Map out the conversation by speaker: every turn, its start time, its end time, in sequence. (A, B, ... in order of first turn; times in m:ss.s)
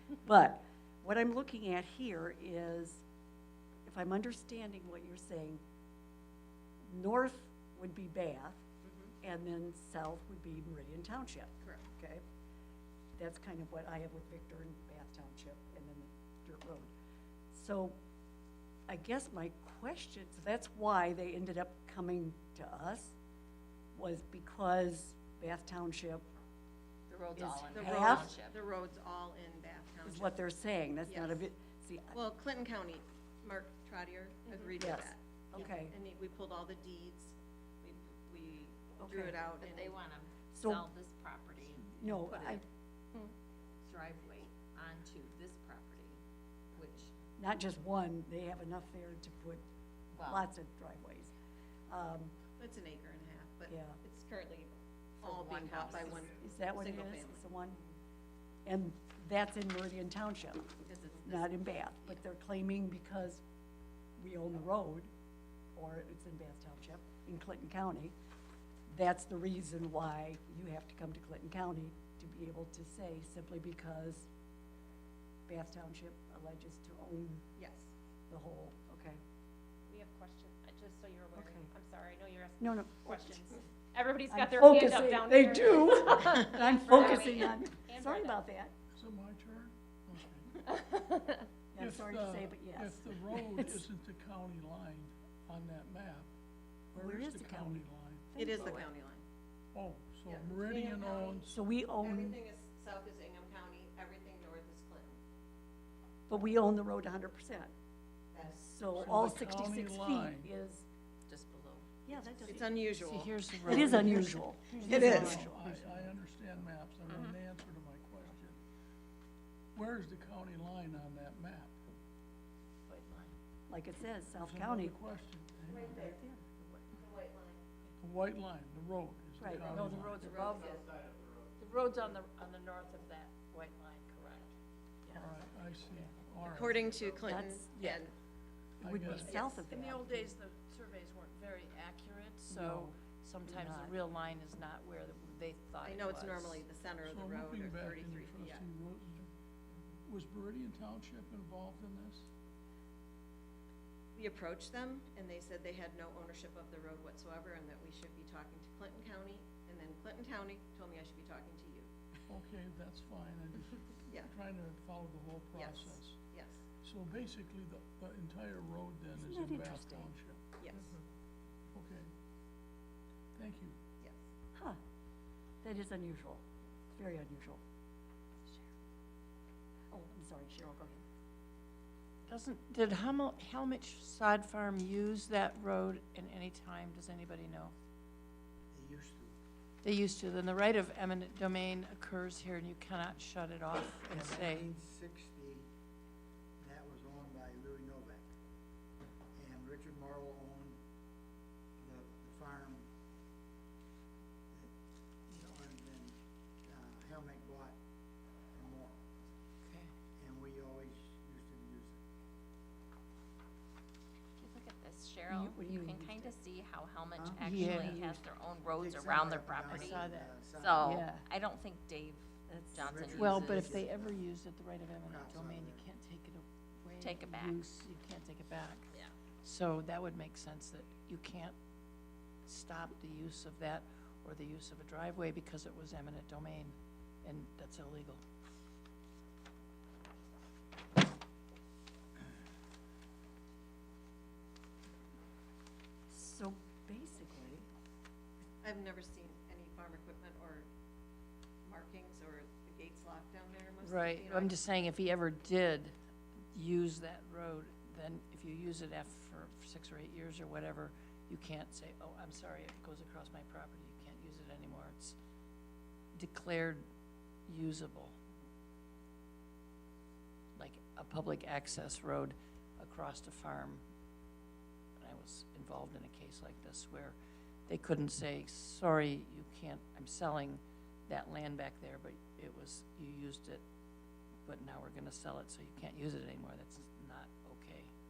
0:00.2-0:03.0 A
0:03.9-0:05.6 A
0:06.9-0:08.6 A
0:08.8-0:09.1 B
0:09.2-0:12.2 A
0:13.2-0:16.9 A
0:17.5-0:18.0 A
0:18.9-0:23.2 A
0:23.9-0:26.3 A
0:27.1-0:28.6 C
0:27.4-0:28.4 A
0:27.7-0:30.4 B
0:30.0-0:32.2 A
0:31.1-0:31.4 B
0:32.1-0:40.0 B
0:34.8-0:36.0 A
0:39.0-0:39.4 A
0:39.6-0:42.6 C
0:40.5-0:40.9 A
0:41.8-0:42.6 A
0:43.8-0:46.2 C
0:46.8-0:47.1 C
0:47.4-0:49.6 A
0:50.1-0:50.5 C
0:50.2-0:51.3 A
0:51.9-0:52.4 A
0:52.6-0:57.8 B
0:53.7-0:54.0 A
0:55.2-0:56.4 C
0:55.4-0:57.8 A
0:58.6-1:03.4 A
1:00.9-1:01.5 B
1:04.2-1:05.1 A
1:05.8-1:08.1 A
1:08.9-1:14.3 A
1:15.5-1:17.5 A
1:17.6-1:17.9 B
1:18.3-1:19.2 A
1:19.9-1:28.4 D
1:21.3-1:21.7 A
1:22.6-1:23.4 A
1:24.3-1:28.7 A
1:26.5-1:27.2 B
1:29.0-1:30.6 E
1:31.7-1:33.8 A
1:31.8-1:36.3 E
1:36.9-1:38.8 E
1:37.0-1:38.8 A
1:38.4-1:39.2 B
1:39.7-1:41.6 E
1:40.3-1:41.4 B
1:41.5-1:42.4 A
1:42.0-1:45.2 B
1:46.3-1:47.7 A
1:48.3-1:48.6 B
1:48.4-1:50.9 A
1:49.0-1:50.5 E
1:51.3-1:51.9 C
1:52.0-1:52.8 A
1:52.2-1:53.9 B
1:52.9-1:55.5 F
1:53.7-1:56.0 A
1:53.9-1:58.6 E
1:54.9-1:55.4 B
1:57.1-1:57.4 C
1:59.7-2:01.8 E
2:02.9-2:03.3 F
2:03.7-2:05.0 A
2:04.4-2:06.1 E
2:05.7-2:06.1 B
2:05.9-2:06.5 A
2:06.9-2:07.6 B
2:08.0-2:10.4 E
2:09.4-2:10.0 A
2:09.6-2:10.8 F
2:10.2-2:10.9 B
2:11.6-2:14.5 F
2:15.1-2:17.1 E
2:16.5-2:18.1 B
2:17.2-2:18.0 A
2:18.8-2:19.5 E
2:18.8-2:20.3 A
2:19.1-2:26.7 F
2:22.5-2:24.0 A
2:25.8-2:28.7 B
2:27.0-2:29.3 E
2:30.0-2:32.3 E
2:34.2-2:41.9 B
2:42.3-2:46.2 E
2:44.1-2:44.3 B
2:45.5-2:46.6 B
2:46.8-2:50.6 E
2:49.2-2:50.1 A
2:50.6-2:51.0 B
2:51.7-2:52.1 E
2:53.4-2:53.8 E
2:55.6-2:57.6 A
2:59.9-3:01.0 A
3:02.3-3:07.7 F
3:08.7-3:09.3 G
3:09.8-3:14.7 F
3:14.0-3:15.7 G
3:16.6-3:18.3 G
3:19.4-3:20.8 G
3:21.8-3:22.9 G
3:25.3-3:27.8 G
3:28.5-3:29.0 G
3:29.6-3:29.9 F
3:30.2-3:32.0 G
3:34.4-3:43.8 C
3:35.3-3:36.3 A
3:37.2-3:38.2 A
3:37.4-3:38.0 F
3:38.8-3:41.0 G
3:39.7-3:41.2 F
3:42.5-3:42.9 A
3:42.8-3:44.3 G
3:43.2-3:48.9 F
3:45.1-3:45.8 G
3:47.0-3:47.6 C
3:49.4-3:51.6 F
3:52.5-3:58.2 F
4:06.1-4:07.7 A
4:08.6-4:10.7 B
4:11.6-4:14.6 B
4:13.8-4:16.0 F
4:16.5-4:25.2 F
4:26.2-4:26.9 F
4:27.5-4:28.2 F
4:30.6-4:33.8 F
4:35.0-4:43.6 F
4:44.4-4:47.9 F